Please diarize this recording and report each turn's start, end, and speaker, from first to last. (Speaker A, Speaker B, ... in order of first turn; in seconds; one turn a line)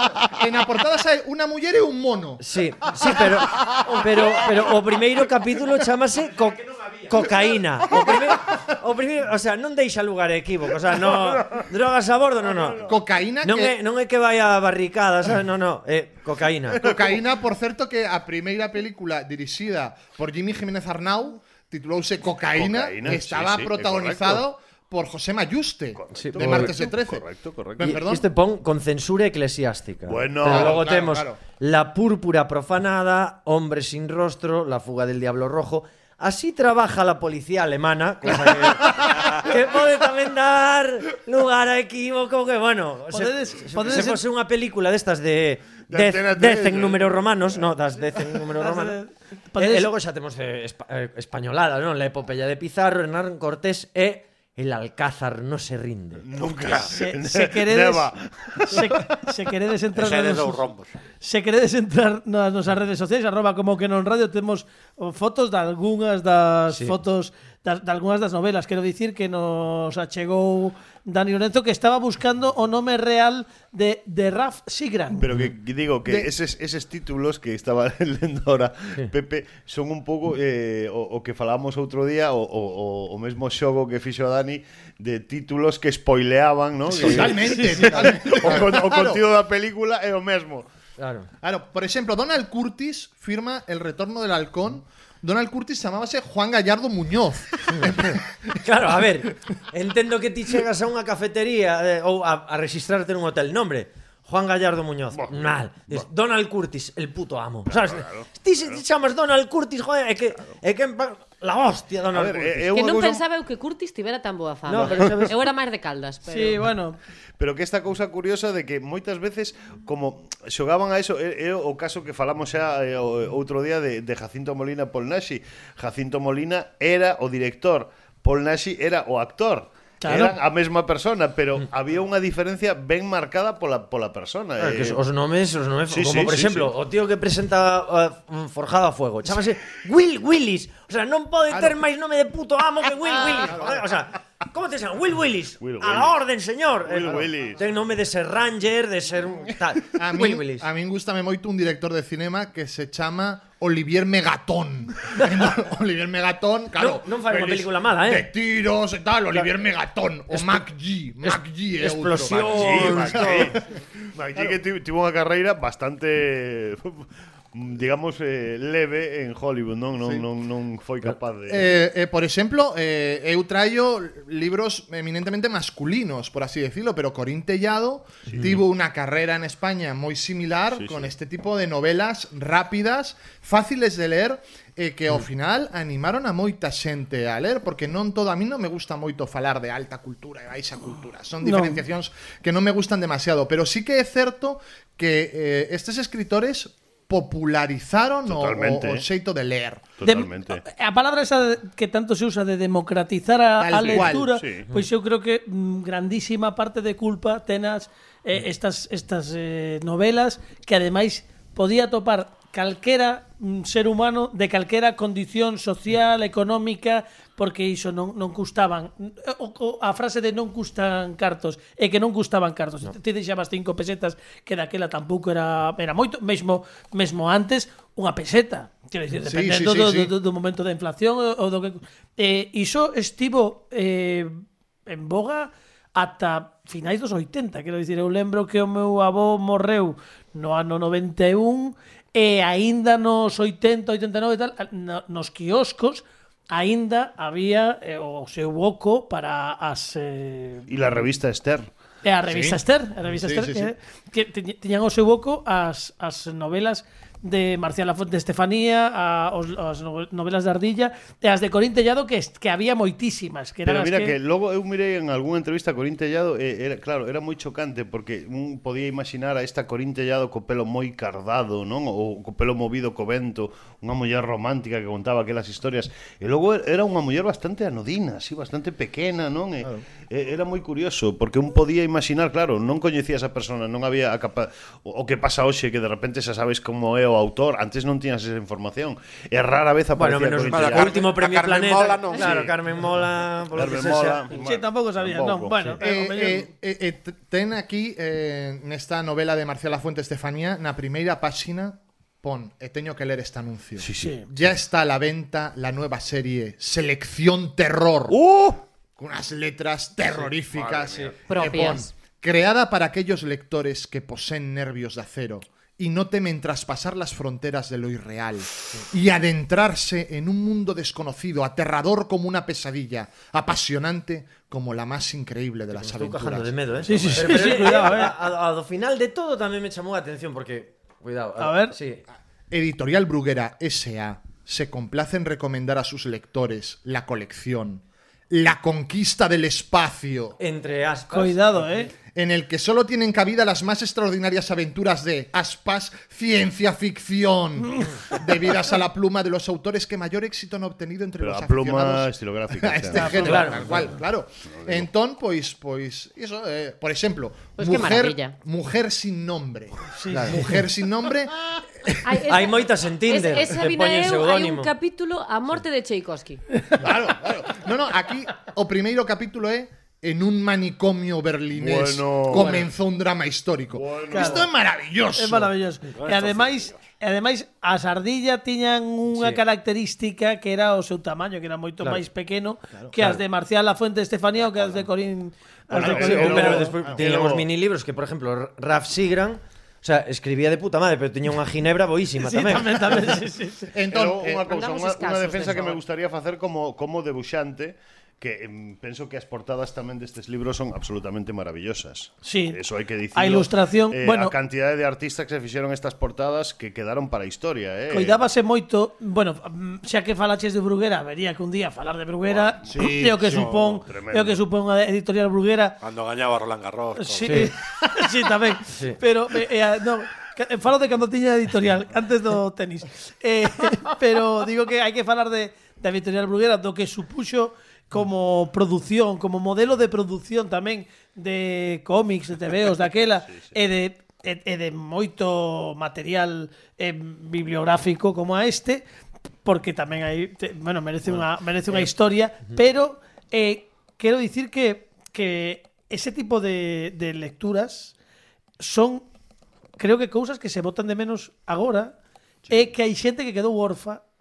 Speaker A: 0.2-2.4
Speaker B: 2.4-12.9
Speaker A: 12.8-13.8
Speaker B: 13.4-16.9
Speaker A: 16.8-27.2
Speaker C: 22.5-24.4
Speaker C: 25.9-28.0
Speaker B: 26.1-26.7
Speaker A: 27.8-28.2
Speaker B: 27.8-49.0
Speaker C: 30.0-30.9
Speaker A: 30.4-31.4
Speaker D: 43.1-44.2
Speaker C: 45.9-47.7
Speaker D: 48.6-49.9
Speaker B: 49.6-56.2
Speaker C: 56.2-59.1
Speaker E: 56.4-56.9
Speaker D: 56.9-60.6
Speaker E: 59.9-61.0
Speaker D: 61.2-75.2
Speaker B: 66.7-66.9
Speaker C: 75.2-90.7
Speaker A: 86.9-89.2
Speaker B: 87.0-87.9
Speaker B: 91.0-91.3
Speaker A: 91.4-98.3
Speaker B: 97.7-98.0
Speaker B: 98.6-112.8
Speaker C: 105.1-106.0
Speaker C: 107.7-108.8
Speaker C: 112.1-113.2
Speaker F: 112.7-116.6
Speaker B: 114.7-115.3
Speaker C: 114.7-115.3
Speaker D: 116.3-117.0
Speaker C: 117.4-135.0
Speaker D: 130.0-130.3
Speaker B: 134.6-150.6
Speaker C: 135.9-136.7
Speaker A: 141.5-141.8
Speaker A: 143.2-143.8
Speaker C: 145.6-146.2
Speaker C: 146.8-147.7
Speaker A: 149.9-163.6
Speaker B: 156.8-158.3
Speaker B: 160.3-160.6
Speaker B: 161.2-163.6
Speaker C: 162.3-163.6
Speaker C: 164.1-171.7
Speaker A: 170.0-170.2
Speaker A: 171.5-200.2
Speaker C: 178.3-178.6
Speaker C: 180.7-181.1
Speaker D: 191.4-191.8
Speaker C: 198.3-199.0
Speaker C: 200.0-200.6
Speaker D: 200.6-250.7
Speaker A: 203.6-204.3
Speaker C: 203.8-204.7
Speaker A: 229.2-230.1
Speaker C: 250.7-251.7
Speaker D: 252.0-264.1
Speaker A: 252.3-253.7
Speaker C: 263.6-291.1
Speaker B: 289.9-294.3
Speaker E: 290.5-292.5
Speaker C: 292.1-295.8
Speaker D: 294.3-296.5
Speaker A: 295.8-308.2
Speaker C: 303.8-304.5
Speaker D: 304.0-304.3
Speaker C: 308.1-308.6
Speaker A: 309.0-326.6
Speaker F: 311.3-311.9
Speaker B: 325.7-332.0
Speaker D: 326.9-328.2
Speaker D: 331.4-331.8
Speaker A: 332.5-340.4
Speaker B: 340.4-341.8
Speaker D: 341.1-341.9
Speaker A: 342.1-362.2
Speaker C: 351.2-353.9
Speaker D: 352.9-353.4
Speaker B: 353.2-353.6
Speaker C: 354.5-354.9
Speaker F: 357.6-358.4
Speaker D: 359.9-360.5
Speaker F: 362.0-366.4
Speaker B: 362.2-364.7
Speaker A: 366.8-375.5
Speaker C: 371.5-372.6
Speaker C: 373.7-374.4
Speaker D: 374.1-374.5
Speaker D: 375.1-386.8
Speaker E: 375.9-376.8
Speaker B: 379.1-379.4
Speaker B: 383.0-383.2
Speaker A: 385.8-387.0
Speaker C: 385.8-387.5
Speaker B: 385.8-393.0
Speaker D: 392.2-393.7
Speaker A: 393.7-394.6
Speaker C: 393.9-408.2
Speaker F: 394.5-395.8
Speaker D: 402.2-402.6
Speaker D: 403.1-404.3
Speaker D: 407.9-415.8
Speaker C: 412.3-414.4
Speaker A: 412.7-413.4
Speaker E: 413.2-413.5
Speaker E: 415.8-417.5
Speaker D: 417.0-438.8
Speaker B: 417.2-417.5
Speaker B: 418.6-419.0
Speaker C: 433.3-433.6
Speaker D: 439.4-447.9
Speaker D: 448.6-449.0
Speaker D: 449.8-451.9
Speaker D: 452.5-454.0